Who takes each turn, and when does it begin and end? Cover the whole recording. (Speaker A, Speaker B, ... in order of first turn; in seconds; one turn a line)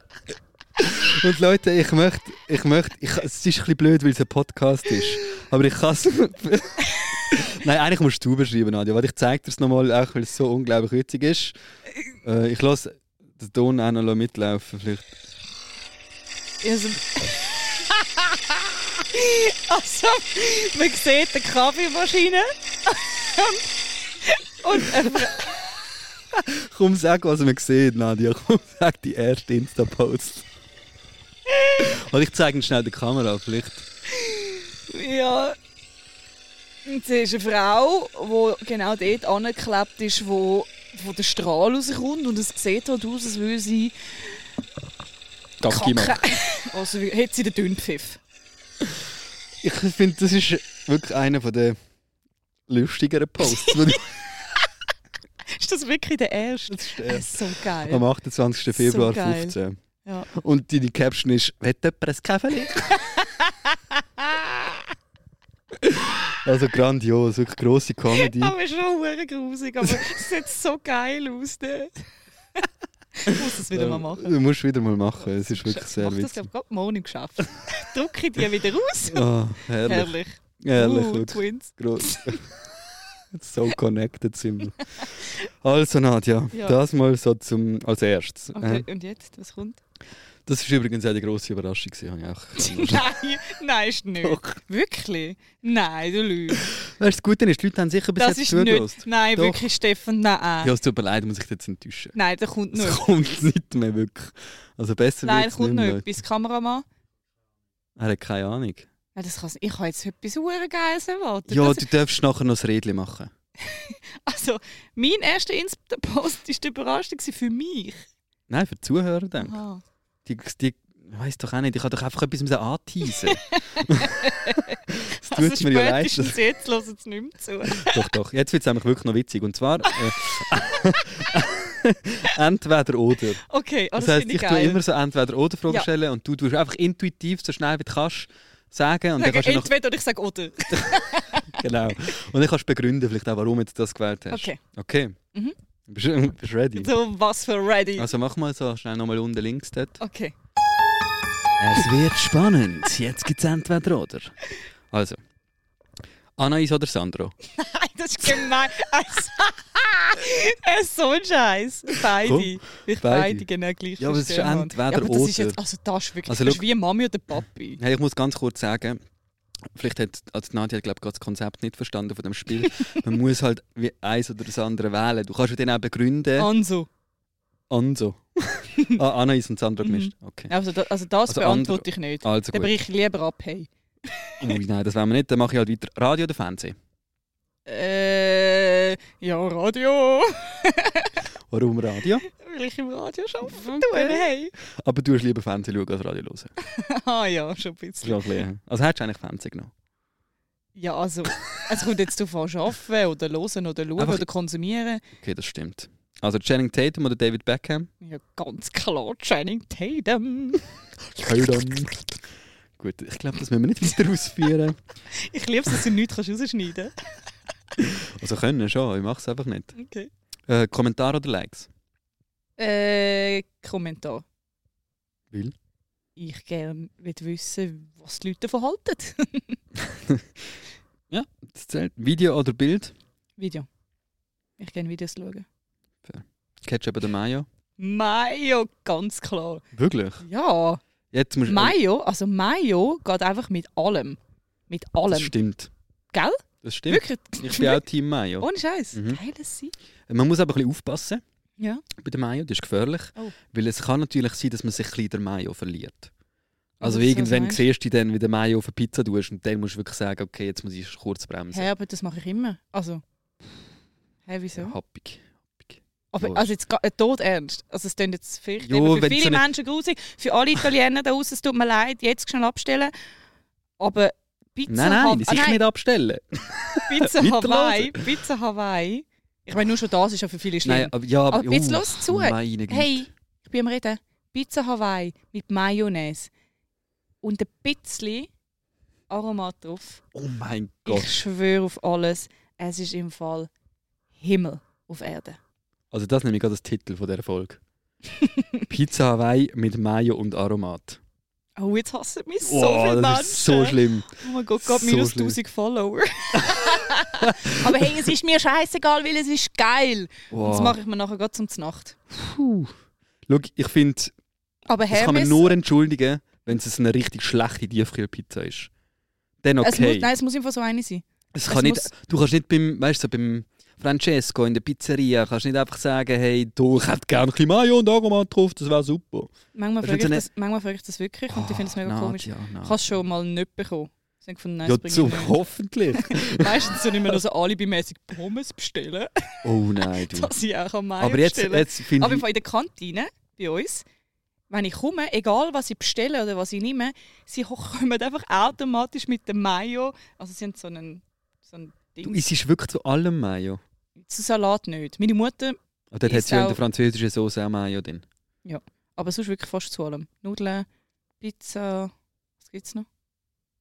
Speaker A: 0.8-11.5
Speaker A: 12.2-15.1
Speaker B: 16.6-25.6
Speaker A: 26.3-30.4
Speaker B: 31.5-31.9
Speaker A: 31.8-33.8
Speaker B: 34.1-35.5
Speaker B: 36.9-44.4
Speaker A: 45.6-46.2
Speaker B: 45.7-48.2
Speaker A: 49.6-51.8
Speaker A: 52.7-54.1
Speaker B: 53.5-54.6
Speaker B: 55.5-58.0
Speaker A: 56.7-59.8
Speaker B: 58.7-60.3
Speaker A: 60.3-63.0
Speaker B: 62.9-64.9
Speaker A: 65.8-68.5
Speaker B: 68.1-72.0
Speaker B: 73.2-74.3
Speaker A: 73.3-76.4
Speaker B: 75.5-79.3
Speaker A: 79.1-82.5
Speaker B: 79.8-82.4
Speaker A: 83.3-88.8
Speaker B: 88.5-89.8
Speaker A: 90.5-93.1
Speaker B: 92.6-96.7
Speaker A: 94.2-94.6
Speaker A: 96.7-99.6
Speaker B: 98.2-100.7
Speaker A: 100.6-102.2
Speaker B: 102.1-103.1
Speaker A: 102.7-106.0
Speaker B: 105.2-106.8
Speaker A: 108.0-108.9
Speaker B: 109.1-111.9
Speaker A: 111.5-113.3
Speaker B: 113.6-118.0
Speaker A: 118.5-119.6
Speaker B: 119.4-119.8
Speaker A: 120.2-126.4
Speaker B: 123.0-124.8
Speaker B: 125.3-128.1
Speaker A: 127.8-133.4
Speaker B: 133.4-134.8
Speaker A: 133.9-139.7
Speaker B: 139.2-141.6
Speaker A: 141.5-145.2
Speaker B: 144.3-144.6
Speaker A: 145.9-146.9
Speaker B: 146.8-148.1
Speaker A: 148.0-150.0
Speaker B: 150.0-150.3
Speaker A: 151.6-154.3
Speaker A: 154.9-155.2
Speaker A: 156.4-157.3
Speaker B: 157.5-167.8
Speaker A: 162.2-163.4
Speaker A: 164.0-165.6
Speaker A: 166.2-166.6
Speaker A: 167.8-169.0
Speaker A: 169.7-176.5
Speaker B: 176.4-176.9
Speaker A: 177.7-180.5
Speaker B: 179.8-184.6
Speaker A: 181.3-182.7
Speaker A: 184.4-186.8
Speaker B: 187.7-191.2
Speaker A: 191.5-192.2
Speaker B: 192.2-194.5
Speaker A: 193.4-196.5
Speaker B: 196.7-198.4
Speaker A: 198.0-199.7
Speaker B: 200.8-205.0
Speaker A: 204.0-204.2
Speaker A: 205.2-207.9
Speaker B: 208.0-210.7
Speaker A: 211.2-212.1
Speaker A: 212.8-214.8
Speaker B: 215.1-216.9
Speaker A: 217.8-219.7
Speaker B: 219.8-220.1
Speaker A: 220.5-221.7
Speaker B: 222.6-224.2
Speaker B: 226.2-229.6
Speaker A: 229.9-230.2
Speaker A: 231.1-232.9
Speaker B: 233.4-233.7
Speaker B: 234.6-235.4
Speaker A: 236.0-237.5
Speaker B: 237.8-239.6
Speaker A: 239.7-240.2
Speaker B: 240.2-240.8
Speaker A: 241.1-241.8
Speaker B: 241.5-244.2
Speaker B: 244.7-245.3
Speaker A: 245.1-245.7
Speaker B: 246.1-247.8
Speaker A: 246.6-249.2
Speaker B: 248.4-249.7
Speaker A: 250.1-251.2
Speaker B: 251.6-251.8
Speaker A: 252.0-256.1
Speaker B: 256.8-257.6
Speaker A: 256.8-261.7
Speaker B: 261.5-263.0
Speaker B: 264.2-264.7
Speaker A: 264.5-266.5
Speaker B: 266.1-272.9
Speaker A: 268.6-269.4
Speaker B: 273.8-275.6
Speaker A: 274.7-278.1
Speaker B: 276.9-286.3
Speaker A: 280.6-283.1
Speaker B: 287.2-288.3
Speaker B: 289.1-290.0
Speaker A: 290.1-291.2
Speaker B: 290.9-293.5
Speaker B: 294.2-295.4
Speaker A: 295.9-297.6
Speaker B: 298.2-298.6
Speaker A: 298.7-301.0
Speaker B: 301.6-311.9
Speaker A: 302.4-305.4
Speaker A: 306.3-306.6
Speaker A: 307.2-307.9
Speaker A: 310.3-310.8
Speaker A: 312.1-312.8
Speaker A: 313.3-314.1
Speaker B: 314.7-315.6
Speaker A: 314.9-318.7
Speaker A: 319.4-320.1
Speaker B: 319.6-321.9
Speaker A: 321.3-329.3
Speaker B: 329.5-335.4
Speaker A: 329.8-330.2
Speaker A: 331.3-332.8
Speaker A: 334.6-337.2
Speaker B: 335.9-343.8
Speaker A: 339.4-340.3
Speaker A: 341.0-342.2
Speaker B: 344.5-352.2
Speaker A: 352.0-353.6
Speaker B: 354.0-356.6
Speaker A: 355.9-358.0
Speaker B: 358.4-360.6
Speaker B: 361.2-361.9
Speaker B: 362.4-362.9